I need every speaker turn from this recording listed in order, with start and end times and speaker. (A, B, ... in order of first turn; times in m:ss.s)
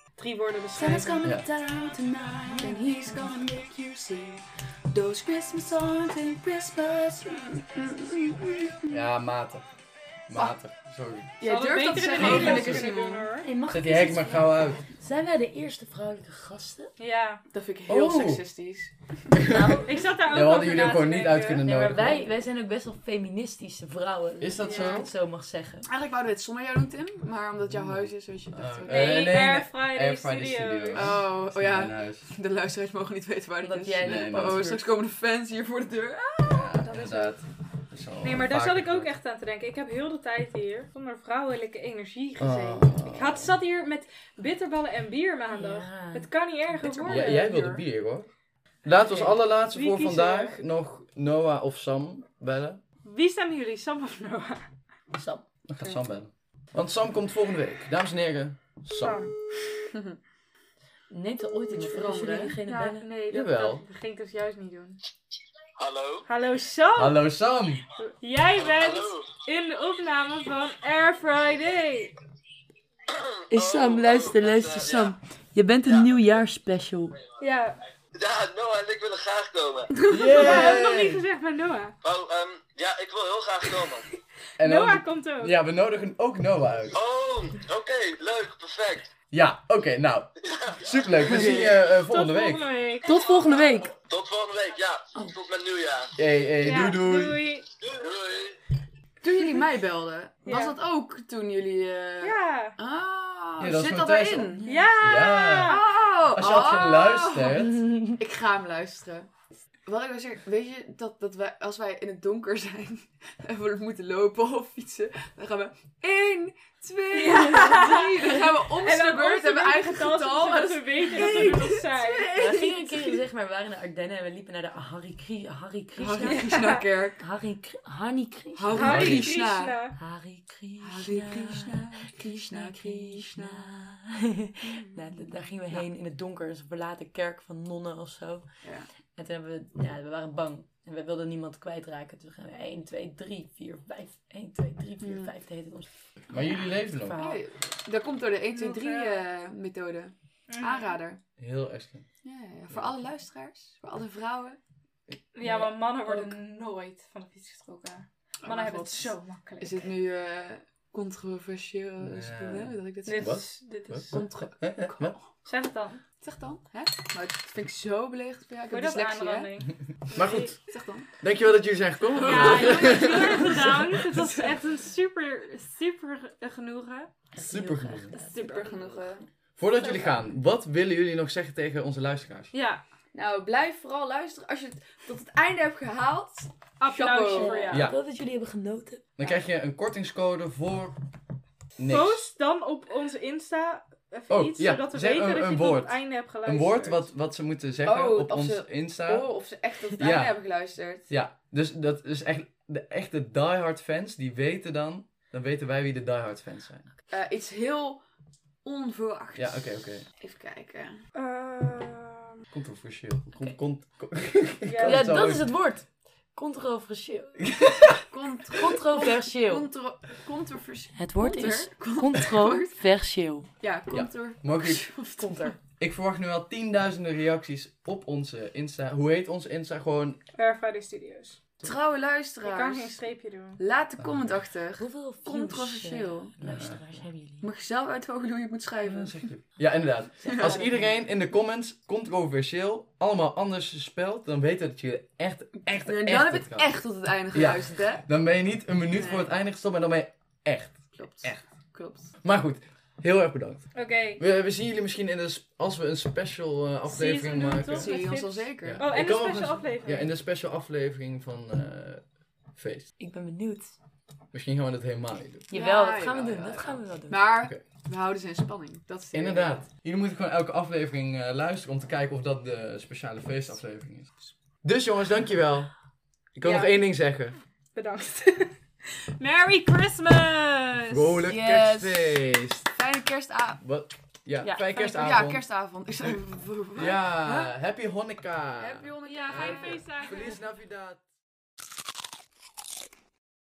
0:00.2-0:01.3 A
0:00.8-0:03.4 B
0:02.6-0:04.4 C
0:04.9-0:09.0 C
0:05.0-0:05.6 B
0:06.4-0:07.2 B
0:08.9-0:09.6 D
0:10.3-0:11.3 D
0:11.4-0:13.3 C
0:11.4-0:13.5 A
0:12.1-0:12.9 D
0:13.4-0:16.9 B
0:13.7-0:14.8 D
0:17.0-0:17.4 A
0:17.5-0:19.5 C
0:17.9-0:18.4 D
0:19.3-0:22.2 D
0:19.4-0:20.0 B
0:19.9-0:21.7 A
0:21.6-0:25.9 B
0:24.4-0:25.1 D
0:24.6-0:25.0 A
0:25.8-0:29.4 C
0:27.7-0:32.3 D
0:28.9-0:31.2 A
0:30.9-0:37.1 C
0:33.6-0:34.9 B
0:34.0-0:34.8 D
0:36.5-0:39.1 D
0:36.8-0:37.3 A
0:38.2-0:47.4 A
0:42.4-0:43.6 D
0:45.5-0:46.3 B
0:46.8-0:47.8 C
0:47.1-0:48.3 D
0:48.8-0:52.8 D
0:49.7-0:50.6 A
0:53.0-0:54.7 A
0:55.1-0:55.4 B
0:55.7-0:59.3 D
0:59.0-0:59.3 A
0:59.9-1:00.2 C
1:01.1-1:03.1 B
1:01.7-1:02.6 C
1:02.4-1:05.0 A
1:03.3-1:03.8 D
1:05.8-1:06.3 E
1:06.3-1:07.3 A
1:07.0-1:07.9 D
1:08.2-1:12.2 A
1:08.6-1:09.3 E
1:13.1-1:15.2 E
1:13.5-1:17.2 B
1:17.4-1:17.8 A
1:18.2-1:20.0 E
1:20.0-1:20.8 C
1:20.1-1:21.2 D
1:20.3-1:22.0 A
1:22.0-1:24.0 E
1:24.6-1:25.6 A
1:24.6-1:27.0 D
1:26.9-1:29.1 E
1:29.3-1:32.7 D
1:30.5-1:31.3 E
1:31.5-1:33.2 A
1:33.0-1:33.9 B
1:33.2-1:33.4 E
1:34.0-1:36.1 E
1:36.2-1:37.5 D
1:36.6-1:37.7 A
1:37.8-1:38.6 E
1:39.2-1:44.6 C
1:40.4-1:40.8 A
1:42.2-1:42.8 A
1:43.6-1:47.9 D
1:44.7-1:44.9 B
1:44.7-1:45.8 A
1:45.7-1:49.3 C
1:47.8-1:48.2 B
1:49.8-2:03.2 C
1:57.1-2:02.3 A
2:02.4-2:06.5 B
2:06.0-2:07.2 C
2:06.3-2:06.8 A
2:07.2-2:09.0 B
2:08.6-2:09.8 C
2:08.7-2:09.3 D
2:08.8-2:10.0 A
2:10.0-2:18.6 B
2:10.8-2:13.7 C
2:18.6-2:18.9 C
2:19.2-2:25.9 B
2:25.0-2:25.3 C
2:26.3-2:27.2 D
2:26.4-2:27.4 B
2:27.2-2:31.2 C
2:28.5-2:29.2 A
2:30.5-2:31.0 A
2:31.4-2:32.0 D
2:32.2-2:34.6 C
2:35.4-2:39.8 A
2:35.4-2:36.4 B
2:38.4-2:43.5 C
2:42.0-2:45.2 D
2:43.0-2:44.3 A
2:44.1-2:45.2 C
2:45.4-2:46.0 A
2:46.2-2:49.5 C
2:48.7-2:50.6 A
2:50.2-2:50.6 D
2:50.6-2:51.1 C
2:51.2-2:53.9 D
2:52.1-2:54.5 C
2:52.2-2:57.1 A
2:57.3-2:58.4 B
2:57.4-2:58.1 D
2:58.1-2:59.3 C
2:58.3-2:59.0 A
2:59.6-3:02.5 D
2:59.8-3:00.2 C
3:02.5-3:02.8 A
3:03.1-3:07.9 C
3:06.8-3:07.9 A
3:07.3-3:09.1 B
3:07.7-3:08.0 D
3:09.2-3:11.0 D
3:11.8-3:12.2 D
3:11.9-3:17.0 A
3:14.3-3:19.3 D
3:17.8-3:21.1 C
3:20.0-3:20.4 D
3:21.1-3:26.9 D
3:27.1-3:28.0 C
3:28.6-3:31.0 C
3:29.4-3:30.1 D
3:31.2-3:32.4 A
3:32.5-3:35.5 D
3:34.7-3:35.4 A
3:34.8-3:37.7 B
3:37.4-3:38.0 D
3:38.1-3:42.7 C
3:38.5-3:39.7 B
3:41.0-3:43.5 B
3:43.6-3:45.6 C
3:43.9-3:44.9 D
3:45.8-3:50.2 D
3:50.4-3:51.4 A
3:51.6-3:53.0 C
3:52.4-3:53.6 A
3:53.6-3:56.3 C
3:54.0-3:54.4 D
3:54.8-3:57.5 B
3:56.4-3:56.8 D
3:57.4-3:59.3 C
3:58.8-4:06.7 D
4:00.2-4:00.8 B
4:00.2-4:00.8 C
4:05.6-4:08.0 C
4:07.3-4:11.4 D
4:08.9-4:09.3 C
4:11.0-4:12.1 C
4:12.2-4:18.0 D
4:13.8-4:14.2 A
4:16.9-4:20.1 A
4:17.2-4:18.9 C
4:18.6-4:22.0 D
4:22.6-4:22.9 D
4:23.0-4:23.8 B
4:24.3-4:25.5 D
4:25.5-4:27.2 B
4:25.5-4:29.6 C
4:29.1-4:34.1 D
4:34.6-4:35.7 D
4:36.4-4:37.4 D
4:36.4-4:36.8 A
4:37.8-4:38.6 A
4:39.1-4:41.3 A
4:40.9-4:42.7 D
4:41.2-4:42.2 C
4:42.7-4:43.6 C
4:43.6-4:45.4 D
4:44.5-4:47.5 C
4:46.8-4:51.0 D
4:48.6-4:49.9 C
4:49.0-4:50.4 A